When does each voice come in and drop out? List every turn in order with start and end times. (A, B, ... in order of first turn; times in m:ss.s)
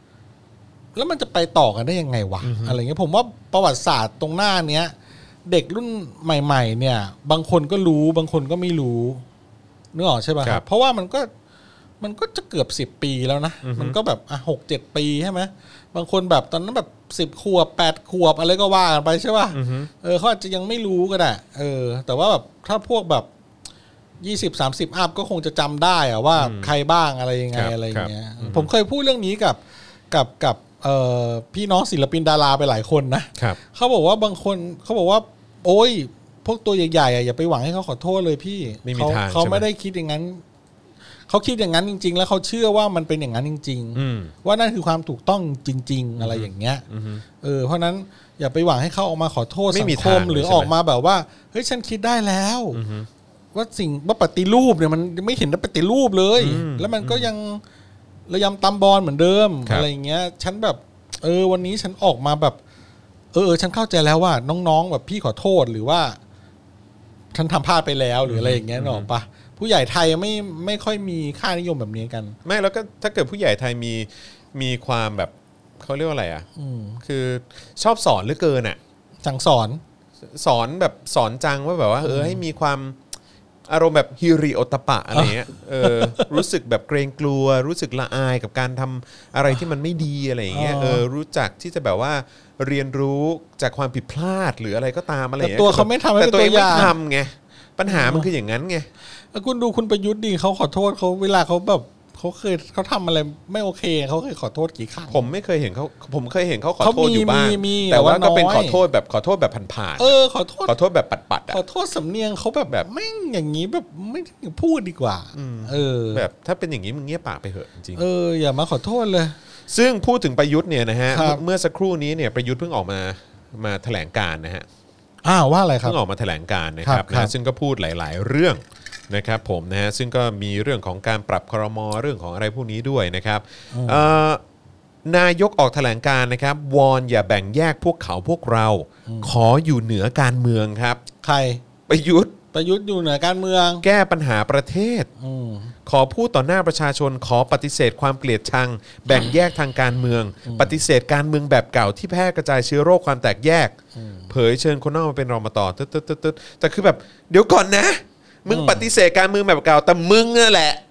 0:01.0-0:04.9 A
0:02.4-0:02.8 B
0:05.4-0:09.2 A
0:09.9-0:11.3 A
0:12.0-0:23.3 A
0:13.6-0:14.0 B
0:19.5-0:19.9 B
0:24.2-0:29.6 A
0:26.4-0:26.7 B
0:27.5-0:28.7 B
0:30.1-0:40.4 A
0:38.8-0:39.7 B
0:41.3-0:46.8 A
0:44.0-0:44.3 B
0:46.2-0:47.2 B
0:47.4-0:52.8 A
0:49.7-0:50.7 B
0:52.7-0:53.1 B
0:53.5-0:57.6 A
0:56.4-0:57.3 B
0:58.3-1:02.6 A
1:03.3-1:06.2 A
1:07.3-1:12.4 A
1:08.3-1:09.1 B
1:12.4-1:16.5 B
1:16.6-1:17.0 A
1:17.0-1:18.8 B
1:19.2-1:19.8 A
1:20.2-1:23.0 B
1:22.0-1:22.4 A
1:23.7-1:38.9 B
1:25.1-1:26.4 A
1:30.5-1:31.0 A
1:35.4-1:37.0 A
1:37.9-1:38.3 A
1:39.3-1:45.2 A
1:45.1-1:50.1 B
1:46.8-1:48.8 A
1:50.0-1:50.8 A
1:50.7-1:51.6 B
1:51.5-1:56.2 A
1:55.3-1:58.0 B
1:58.0-1:59.4 A
1:59.7-2:04.7 B
2:01.1-2:01.4 A
2:05.2-2:06.0 A
2:05.8-2:14.4 B
2:06.8-2:07.3 A
2:13.7-2:14.1 A
2:15.0-2:21.0 B
2:19.1-2:19.3 A
2:21.2-2:21.6 A
2:21.9-2:22.4 B
2:22.5-2:23.8 A
2:23.8-2:25.1 B
2:25.2-2:25.7 A
2:25.9-2:33.8 B
2:30.4-2:30.8 A
2:34.0-2:34.3 A
2:34.3-2:40.8 B
2:38.5-2:38.9 A